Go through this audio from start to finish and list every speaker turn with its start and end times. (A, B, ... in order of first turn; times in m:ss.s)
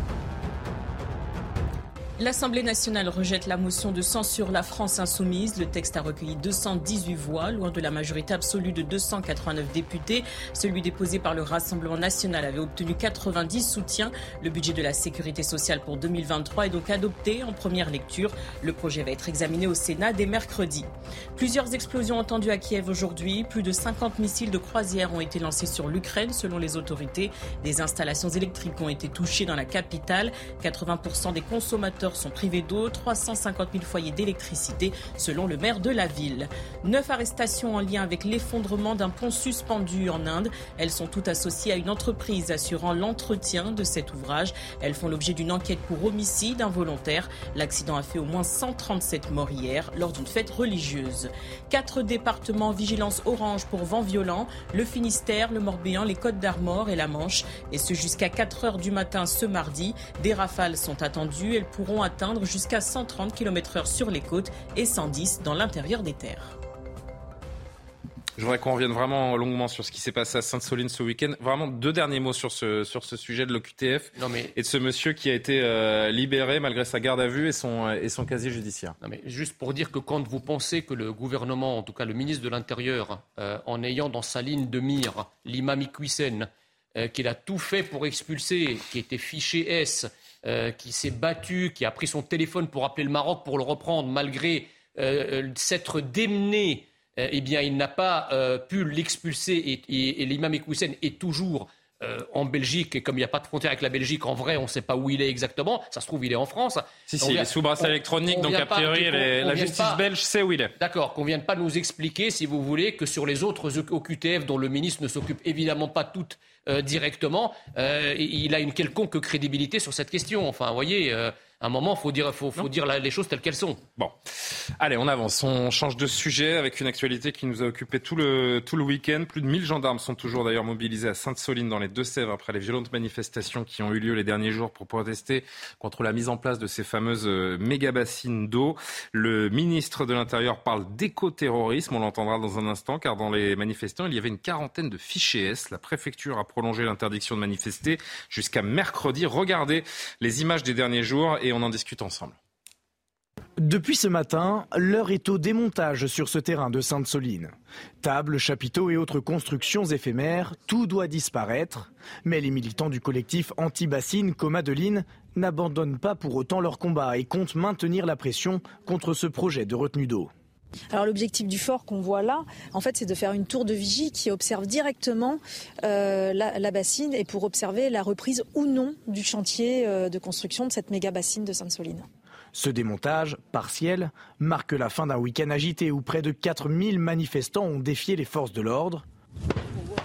0:02.2-1:06.6 A
1:08.4-1:19.0 B
1:14.2-1:14.5 C
1:19.0-1:50.0 C
1:47.1-1:50.7 B
1:50.8-2:03.8 C
2:04.8-2:32.4 B
2:33.6-2:50.3 D
2:50.9-3:02.1 E
3:02.5-3:09.0 D